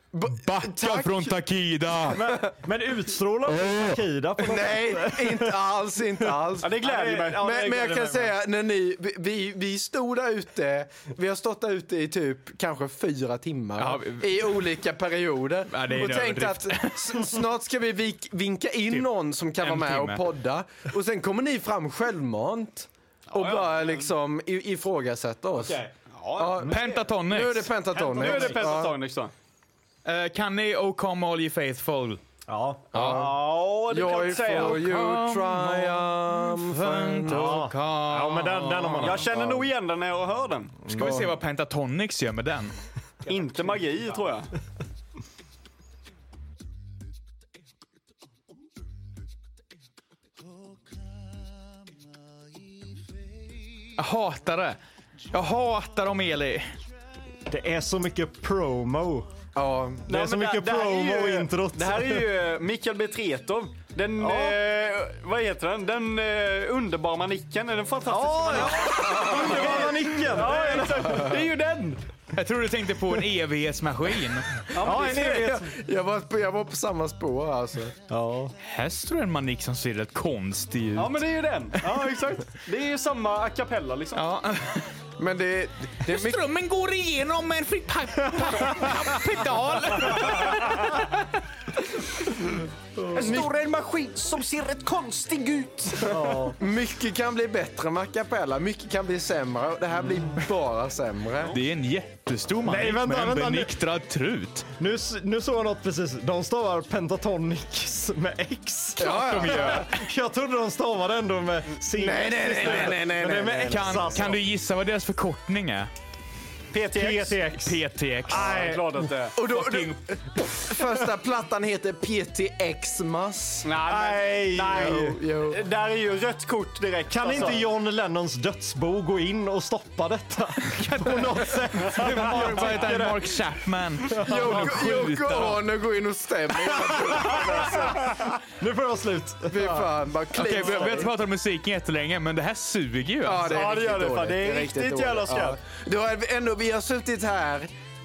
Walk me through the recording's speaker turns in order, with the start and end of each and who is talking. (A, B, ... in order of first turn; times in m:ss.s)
0:00.1-0:01.4 A
0:00.4-0:02.2 B
0:02.0-0:02.5 A
0:02.1-0:05.5 C
0:04.4-0:25.8 A
0:06.6-0:07.5 D
0:06.8-0:08.3 C
0:13.8-0:14.6 B
0:15.7-0:17.3 B
0:19.6-0:20.2 B
0:23.3-0:24.1 D
0:25.6-0:25.9 B
0:26.1-0:26.7 D
0:26.3-0:29.0 A
0:26.6-0:27.7 B
0:27.9-0:28.9 C
0:28.2-0:29.3 D
0:30.0-0:32.2 B
0:32.5-0:33.2 C
0:32.9-0:37.6 A
0:32.9-0:33.3 B
0:33.1-0:34.8 D
0:34.2-0:39.2 B
0:37.2-0:39.7 C
0:38.9-0:40.8 D
0:40.9-0:41.3 C
0:40.9-0:42.7 B
0:43.3-0:44.5 D
0:54.0-0:54.8 B
0:55.3-0:56.7 B
0:57.5-0:59.3 C
0:59.6-1:00.1 A
1:00.1-1:12.0 D
1:00.1-1:02.3 C
1:04.2-1:04.6 C
1:08.1-1:11.4 C
1:08.8-1:09.9 A
1:12.3-1:14.5 B
1:14.7-1:15.6 D
1:14.8-1:18.0 A
1:14.8-1:15.6 C
1:18.1-1:18.5 C
1:18.6-1:22.1 B
1:21.0-1:24.2 D
1:24.2-1:24.9 B
1:25.2-1:26.4 A
1:26.1-1:31.3 B
1:33.0-1:33.5 C
1:33.1-1:36.4 D
1:36.1-1:36.6 C
1:36.6-1:41.6 A
1:41.5-1:44.7 B
1:42.6-1:43.8 C
1:44.8-1:54.4 C
1:49.0-1:49.9 A
1:49.0-1:49.9 B
1:51.9-1:54.3 A
1:52.6-1:52.9 B
1:53.7-1:55.9 B
1:56.7-1:57.4 D
1:56.9-1:59.2 C
1:57.5-1:58.7 B
1:58.3-1:59.4 D
1:59.4-2:03.7 A
1:59.4-2:00.0 B
2:03.6-2:07.7 D
2:03.8-2:05.2 C
2:04.7-2:05.6 A
2:07.1-2:13.4 C
2:10.7-2:15.6 B
2:14.1-2:15.1 C
2:14.2-2:18.2 A
2:17.2-2:19.9 C
2:19.5-2:21.1 A
2:20.3-2:23.6 B
2:23.2-2:27.7 A
2:23.4-2:25.6 D